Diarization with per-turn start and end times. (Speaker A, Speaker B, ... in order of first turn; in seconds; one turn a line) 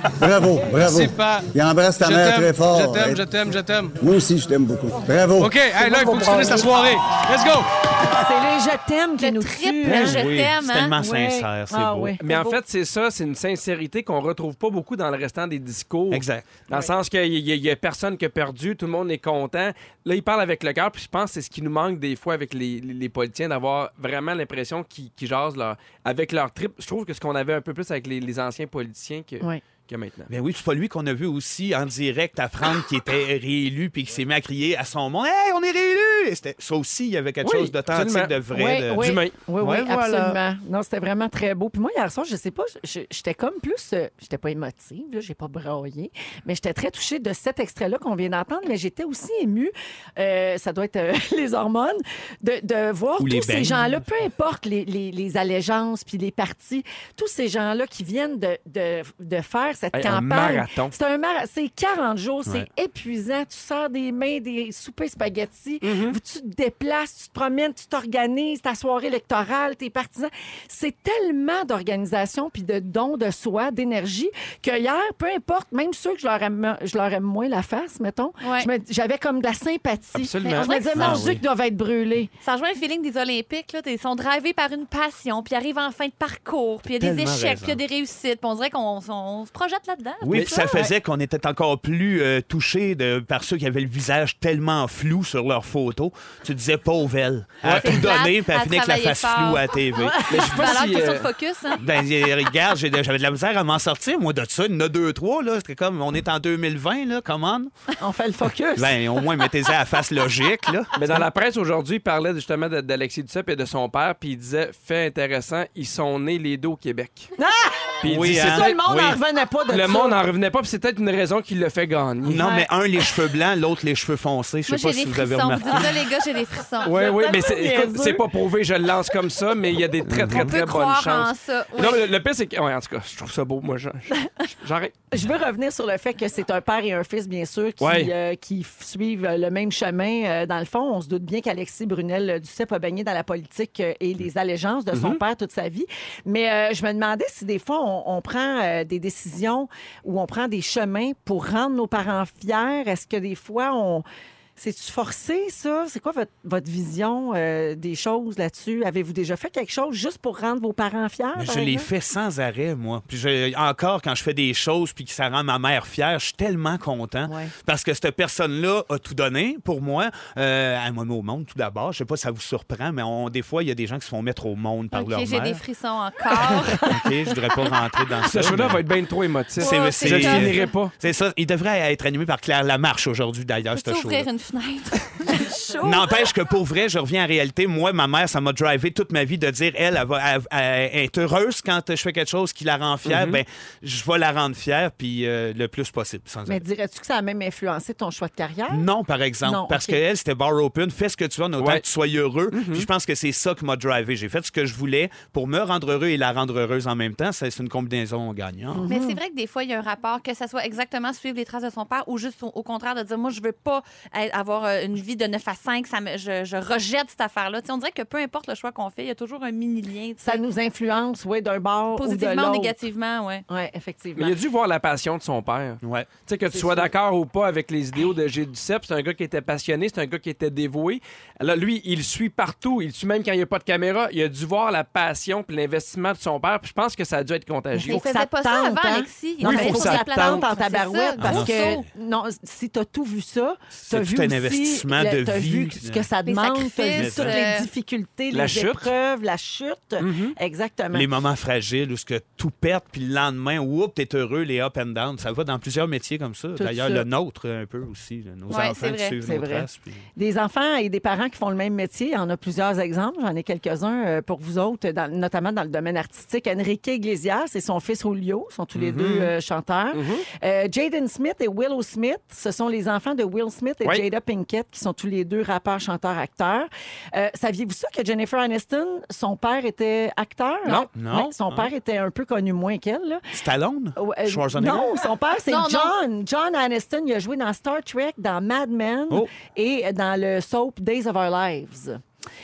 Speaker A: 0.2-3.2
Speaker B: 0.7-4.0
Speaker A: 4.0-6.7
Speaker B: 5.4-7.7
Speaker C: 6.0-6.7
Speaker C: 8.0-10.2
Speaker D: 9.2-11.0
Speaker E: 9.8-12.1
Speaker C: 11.0-12.5
Speaker F: 12.2-30.3
Speaker E: 16.1-16.5
Speaker E: 30.3-40.4
Speaker F: 37.4-38.4
Speaker C: 38.5-82.3
Speaker F: 38.9-39.3
Speaker E: 53.2-54.0
Speaker F: 59.9-60.9
Speaker F: 65.8-66.2
Speaker D: 78.4-78.7
Speaker F: 80.2-80.7
Speaker D: 80.4-81.2
Speaker E: 80.9-81.4
Speaker D: 82.4-90.8
Speaker E: 86.9-87.8
Speaker E: 90.2-100.2
Speaker F: 97.6-98.0
Speaker D: 97.8-101.8
Speaker F: 100.3-101.3
Speaker E: 101.8-107.7
Speaker C: 108.0-109.0
Speaker E: 108.8-110.9
Speaker F: 111.0-117.3
Speaker C: 117.4-120.2
Speaker F: 118.0-119.1
Speaker E: 118.0-119.0
Speaker F: 119.7-122.5
Speaker E: 122.2-126.0
Speaker D: 124.7-126.9
Speaker C: 126.8-128.2
Speaker F: 126.8-134.9
Speaker E: 130.1-130.5
Speaker D: 130.3-132.0
Speaker C: 135.1-154.0
Speaker F: 137.8-138.1
Speaker F: 144.9-145.2
Speaker C: 154.6-161.9
Speaker E: 161.3-175.6
Speaker C: 167.3-167.5
Speaker D: 174.9-176.9
Speaker E: 176.8-178.8
Speaker F: 178.3-180.9
Speaker D: 179.6-180.7
Speaker E: 179.6-184.3
Speaker D: 183.8-186.2
Speaker E: 185.8-196.6
Speaker F: 193.0-193.4
Speaker C: 196.5-198.9
Speaker E: 198.7-208.9
Speaker C: 199.4-200.0
Speaker F: 201.6-201.8
Speaker F: 202.5-202.9
Speaker C: 208.8-209.2
Speaker D: 208.9-220.4
Speaker C: 220.2-222.8
Speaker D: 222.0-223.4
Speaker C: 223.5-224.3
Speaker F: 224.2-238.0
Speaker E: 225.8-226.1
Speaker C: 226.5-226.9
Speaker C: 237.7-251.1
Speaker D: 237.9-241.8
Speaker F: 239.4-240.4
Speaker E: 241.2-241.8
Speaker E: 243.8-246.1
Speaker D: 246.2-247.7
Speaker E: 246.9-247.3
Speaker F: 248.3-248.9
Speaker F: 250.0-250.3
Speaker E: 250.9-260.0
Speaker C: 256.6-257.1
Speaker D: 258.5-259.1
Speaker C: 259.2-283.2
Speaker F: 268.8-269.3
Speaker F: 269.9-270.2
Speaker E: 280.9-281.7
Speaker E: 283.3-285.0
Speaker C: 284.0-292.0
Speaker D: 285.5-285.9